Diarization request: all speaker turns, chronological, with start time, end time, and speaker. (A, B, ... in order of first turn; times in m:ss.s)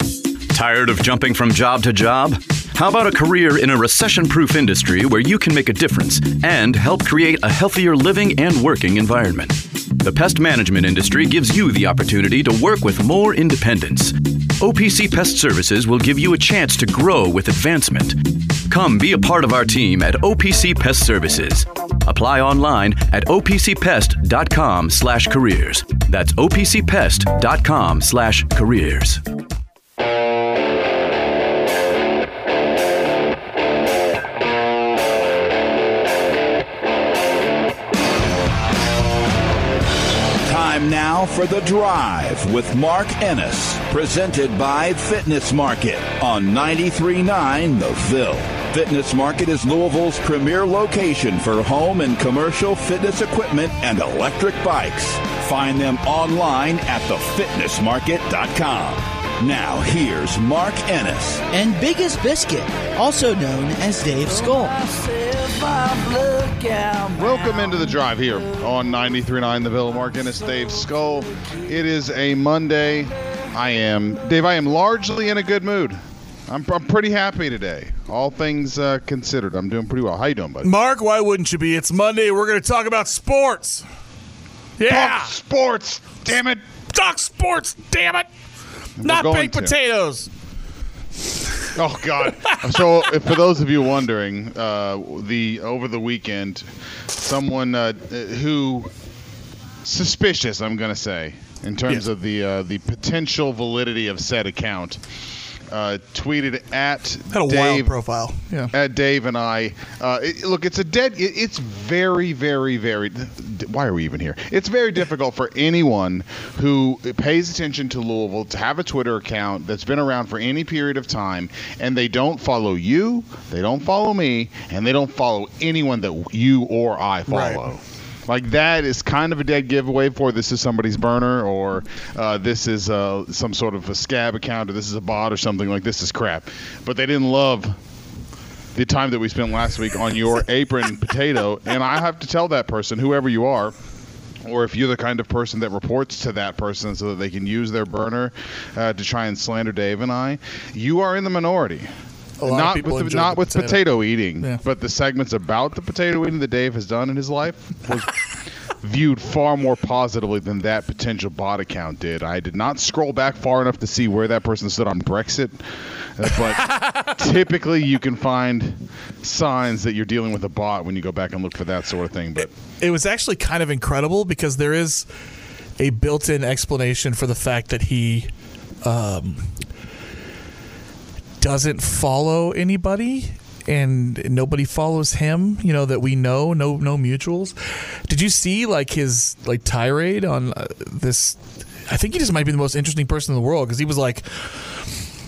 0:00.5-0:29.2 A
0:40.4-1:01.5 B
1:01.5-1:04.8 C
1:07.1-1:20.7 D
1:20.6-1:23.8 E
1:24.8-1:25.3 E
1:24.8-1:26.6 D
1:26.9-1:28.3 E
1:29.0-1:29.8 D
1:29.0-1:30.3 E
1:31.8-1:38.9 D
1:32.3-1:33.0 E
1:39.8-1:45.0 D
1:45.7-1:48.0 D
1:47.3-1:48.7 E
1:48.7-2:17.8 D
2:07.3-2:07.7 E
2:18.7-2:23.8 D
2:24.4-2:31.9 D
2:32.4-2:34.6 E
2:32.4-2:38.2 D
2:38.7-2:52.5 D
2:46.7-2:47.1 E
2:52.8-2:55.1 E
2:55.8-2:58.3 E
2:58.8-2:59.5 E
3:01.4-3:14.9 E